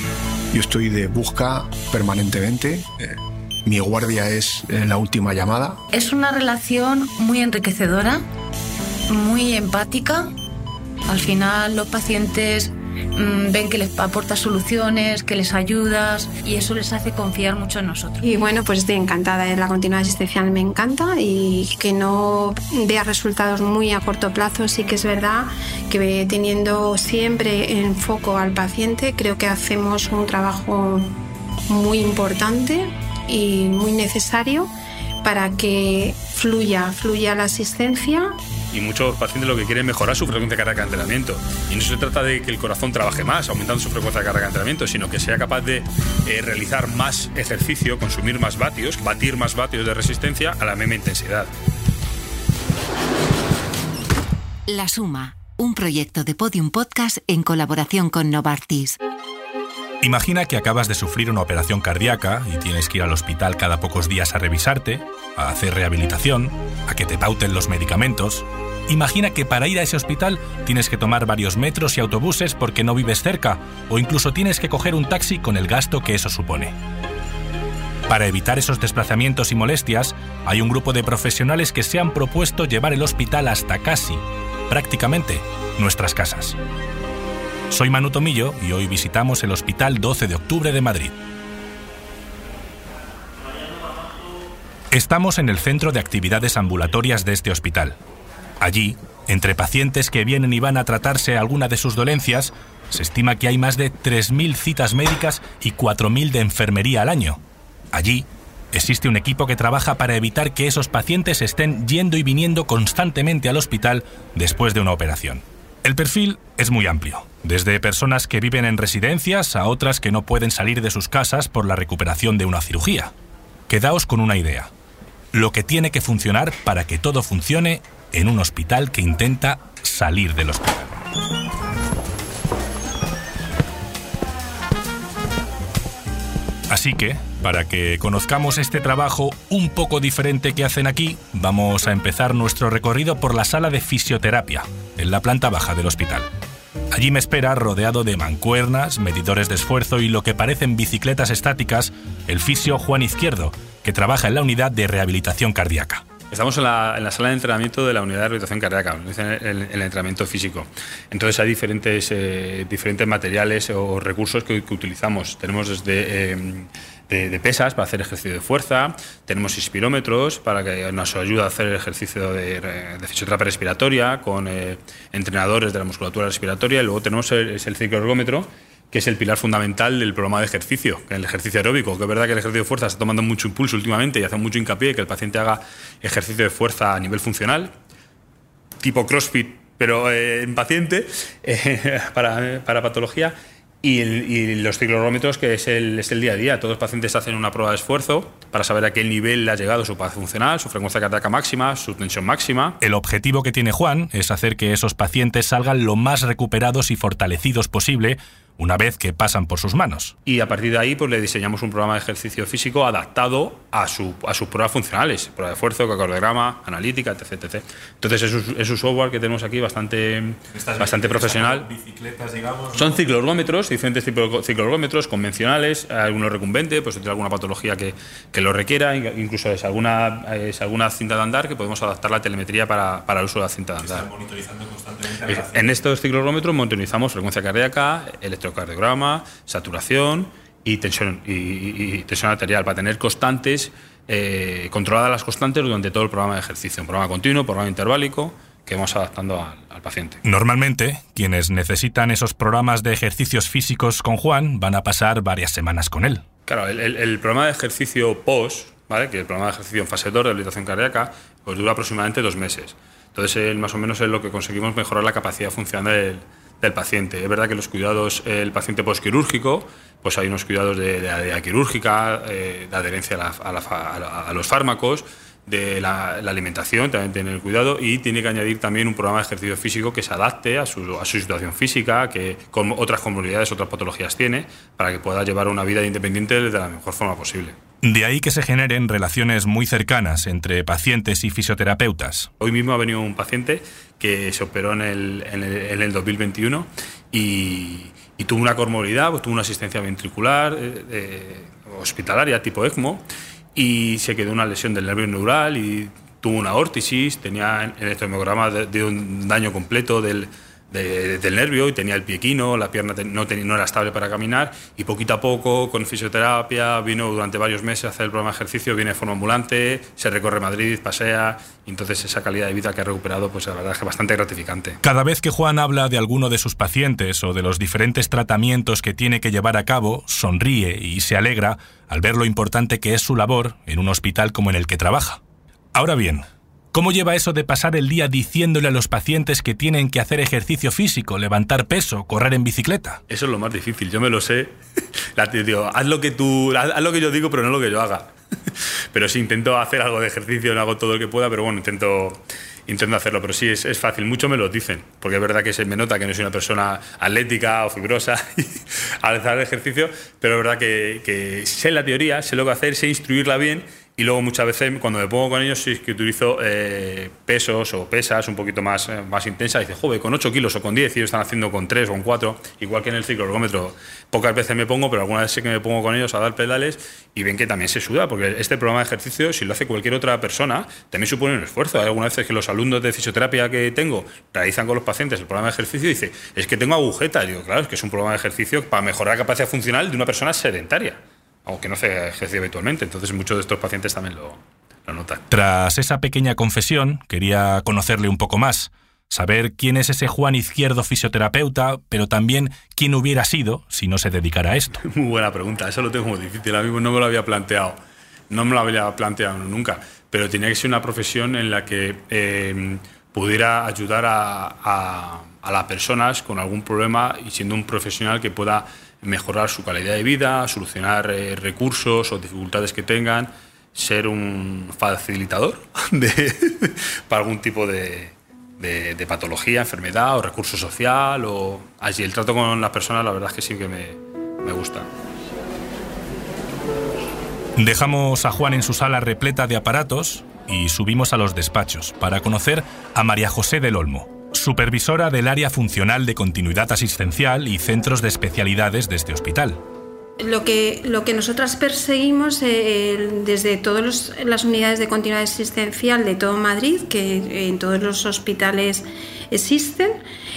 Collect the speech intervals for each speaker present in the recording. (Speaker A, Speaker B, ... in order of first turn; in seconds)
Speaker A: 0.5-5.8
Speaker B: 5.9-8.2, 9.1-10.3, 11.1-18.2
Speaker C: 18.2-31.1, 31.7-34.7, 35.2-38.4, 450.2-460.0
Speaker D: 38.7-51.5, 156.3-187.7, 188.8-202.8, 210.2-221.7, 222.7-234.1, 235.2-250.2, 256.5-287.6, 292.4-324.8, 343.1-344.5, 345.1-395.2, 404.8-407.8, 408.3-434.9
Speaker E: 54.7-59.0
Speaker F: 60.0-76.8, 78.1-86.6, 87.7-91.1, 94.9-98.0, 98.6-107.4, 107.9-123.1, 123.7-124.7, 125.3-131.0, 136.7-146.3, 146.9-156.0, 202.8-210.1, 220.5-223.0, 233.8-235.7, 250.2-256.2, 287.8-292.3, 324.8-335.2, 335.7-343.0, 395.3-404.8, 437.6-449.6